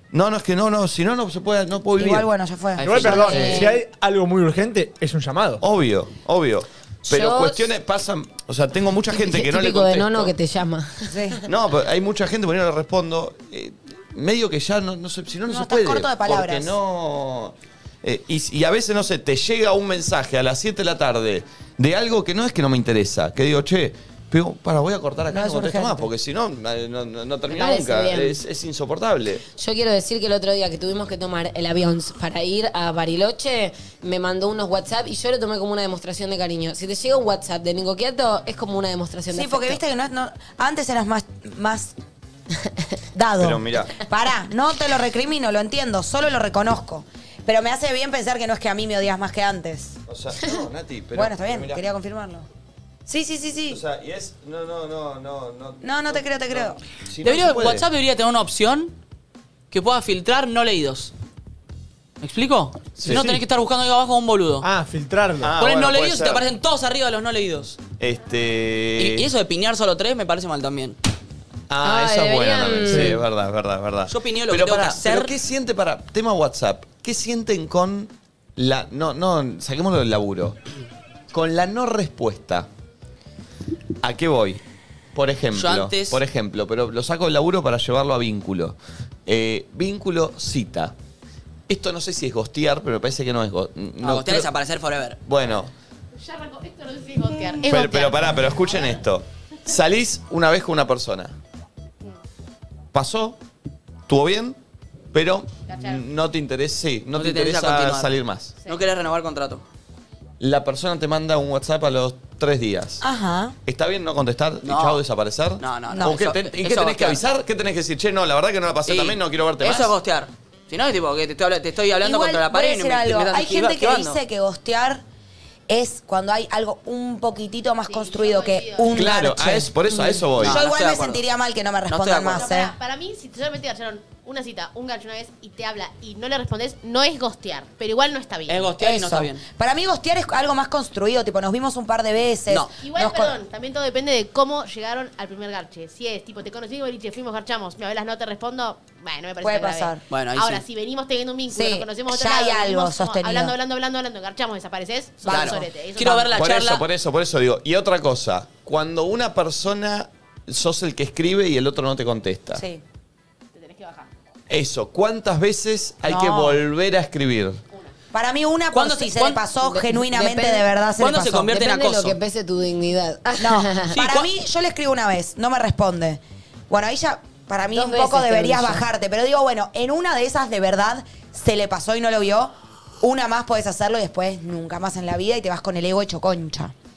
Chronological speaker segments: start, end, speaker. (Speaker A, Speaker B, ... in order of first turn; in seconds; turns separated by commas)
Speaker A: 0.1-2.3, Speaker B: 2.0-3.7, Speaker C: 2.8-3.3, Speaker D: 2.8-5.6, Speaker E: 3.1-3.8, Speaker A: 5.6-10.3, Speaker E: 7.1-7.7, Speaker E: 9.1-11.4, Speaker B: 11.1-11.4, Speaker A: 11.5-29.4, Speaker B: 15.5-16.8, Speaker B: 25.3-26.1, Speaker E: 27.5-28.4, Speaker E: 29.6-39.8, Speaker B: 39.3-42.0, Speaker E: 42.5-42.9, Speaker B: 43.1-50.0, Speaker A: 43.4-44.0, Speaker A: 50.1-51.8, Speaker B: 51.1-52.5, Speaker B: 53.1-53.8, Speaker A: 53.7-57.9, Speaker B: 55.8-56.8, Speaker C: 57.2-58.9, Speaker C: 59.7-61.1, Speaker C: 62.2-64.7, Speaker A: 63.0-63.3, Speaker D: 63.0-63.4, Speaker D: 64.6-65.5, Speaker A: 65.4-66.5, Speaker C: 65.6-67.8, Speaker A: 68.0-69.3, Speaker C: 69.0-71.0, Speaker A: 71.7-80.6, Speaker E: 71.8-73.2, Speaker D: 72.9-73.2, Speaker C: 74.1-75.3, Speaker A: 81.3-82.7, Speaker A: 84.0-84.6, Speaker A: 85.2-90.9, Speaker C: 85.5-86.2, Speaker A: 91.7-94.5, Speaker C: 94.0-95.2, Speaker A: 95.2-95.7, Speaker F: 96.2-99.0, Speaker A: 97.6-101.3, Speaker A: 102.9-103.4, Speaker A: 104.1-104.6, Speaker A: 105.1-108.6, Speaker F: 105.7-106.0, Speaker C: 107.1-108.1, Speaker C: 108.7-109.6, Speaker A: 110.4-113.0, Speaker B: 113.0-113.6, Speaker A: 113.7-120.0, Speaker C: 114.6-115.0, Speaker C: 115.6-117.2, Speaker B: 115.9-116.2, Speaker C: 118.9-124.2, Speaker B: 122.0-125.0, Speaker B: 125.7-132.7, Speaker F: 127.9-129.2, Speaker A: 128.9-130.6, Speaker C: 130.4-131.2, Speaker C: 131.9-132.5, Speaker F: 132.3-138.7, Speaker C: 138.5-139.4, Speaker B: 138.8-143.4, Speaker F: 142.8-156.4, Speaker B: 149.4-150.0, Speaker C: 150.1-150.6, Speaker B: 151.5-153.6, Speaker B: 155.3-155.7, Speaker C: 155.3-156.8, Speaker A: 156.3-162.6, Speaker B: 162.5-162.8, Speaker F: 163.6-164.1, Speaker A: 164.5-167.6, Speaker B: 166.0-166.6, Speaker B: 168.1-171.6, Speaker C: 168.7-169.4, Speaker E: 169.6-170.7, Speaker C: 171.0-172.2, Speaker E: 171.5-173.9, Speaker B: 173.4-186.7, Speaker C: 173.9-174.3, Speaker E: 177.7-178.9